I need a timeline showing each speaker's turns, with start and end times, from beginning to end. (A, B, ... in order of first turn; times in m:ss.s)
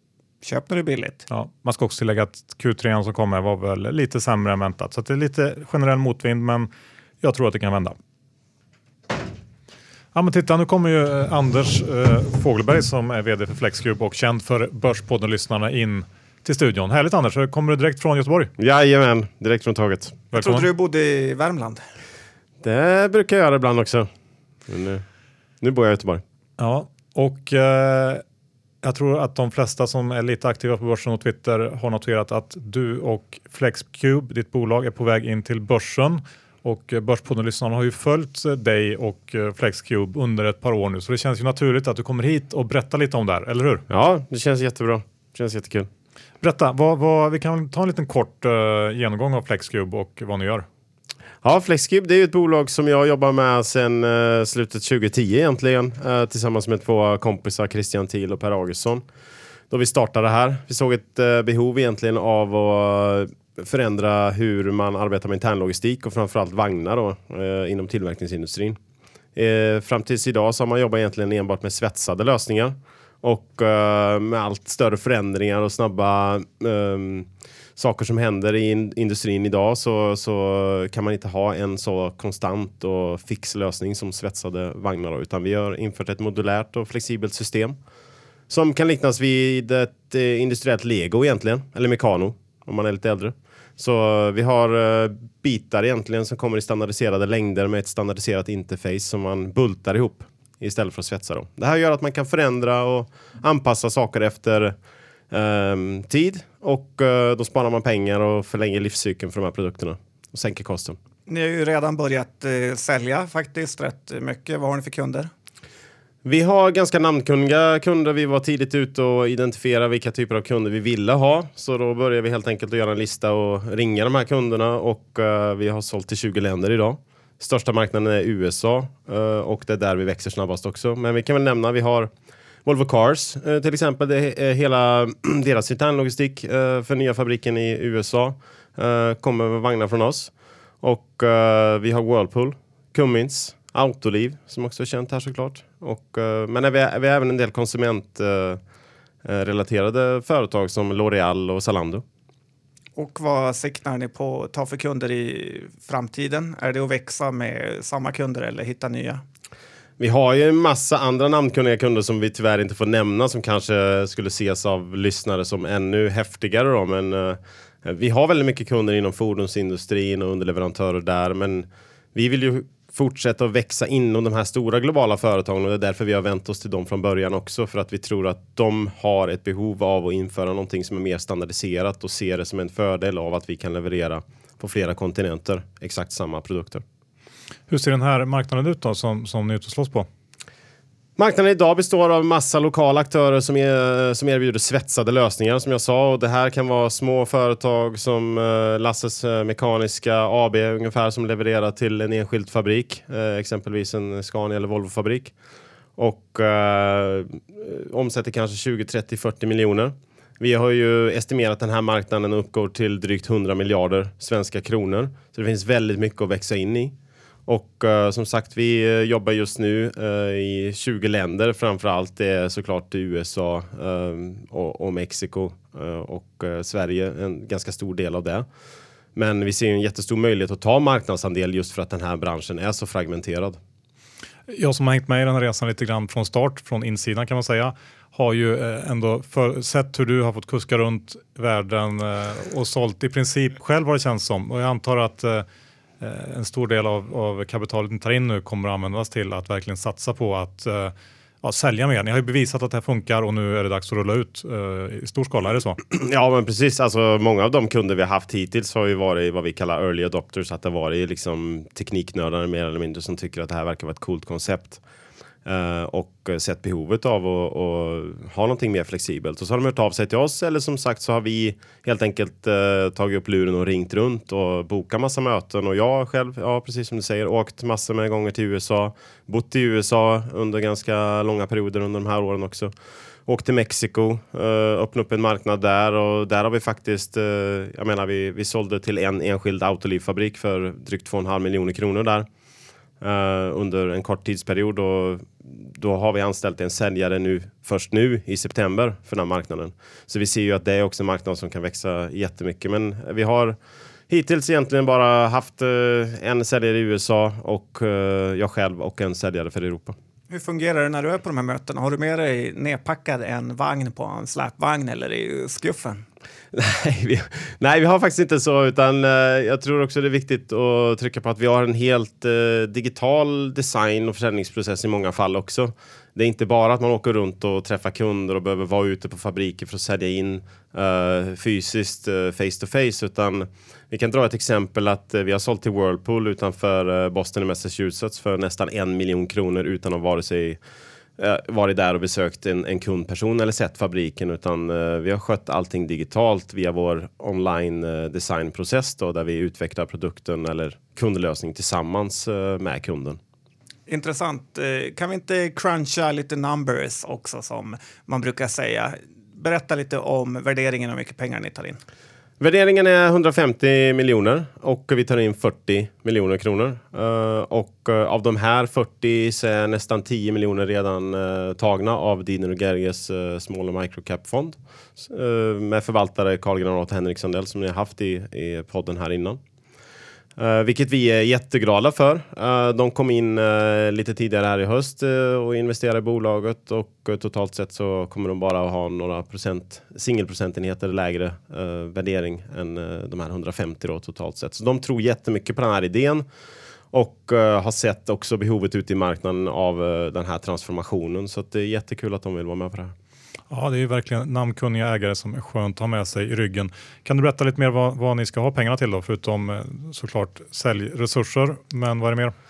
0:00.4-0:01.2 A
0:01.3-0:06.7 B
0:07.2-0:07.9 B
0:10.1-0:18.5 B
0:18.6-0:20.2 C
0:20.3-0:20.7 B
0:20.3-0:21.8 A
0:22.6-0:24.1 C
0:24.7-0:25.0 C
0:25.6-0:26.2 C
0:26.6-0:28.2 B
0:28.8-0:43.8 B
0:43.9-0:45.9 C
0:46.4-0:50.6 B
0:51.4-0:59.0 C
0:59.7-1:08.8 C
1:09.3-1:27.8 C
1:28.5-1:44.8 C
1:45.3-1:51.0 C
1:51.3-1:55.3 A
1:56.2-2:12.1 C
2:12.6-2:28.6 C
2:29.2-2:32.0 C
2:33.0-2:39.2 A
2:40.0-3:06.8 C
3:07.7-3:10.1 B
3:11.2-3:25.3 C
3:26.0-3:36.9 C
3:37.5-3:48.5 C
3:49.1-3:53.6 C
3:54.5-4:05.4 B
4:06.0-4:15.8 B
4:15.9-4:24.8 C
4:25.4-4:42.7 C
4:43.3-4:52.3 C
4:53.0-5:03.6 C
5:04.1-5:10.0 C
5:10.3-5:16.0 A
5:16.5-5:40.6 C
5:41.2-5:53.2 C
5:53.9-6:01.8 A
6:02.4-6:19.4 C
6:20.4-6:36.2 C
6:36.9-6:42.9 C
6:43.5-6:52.3 B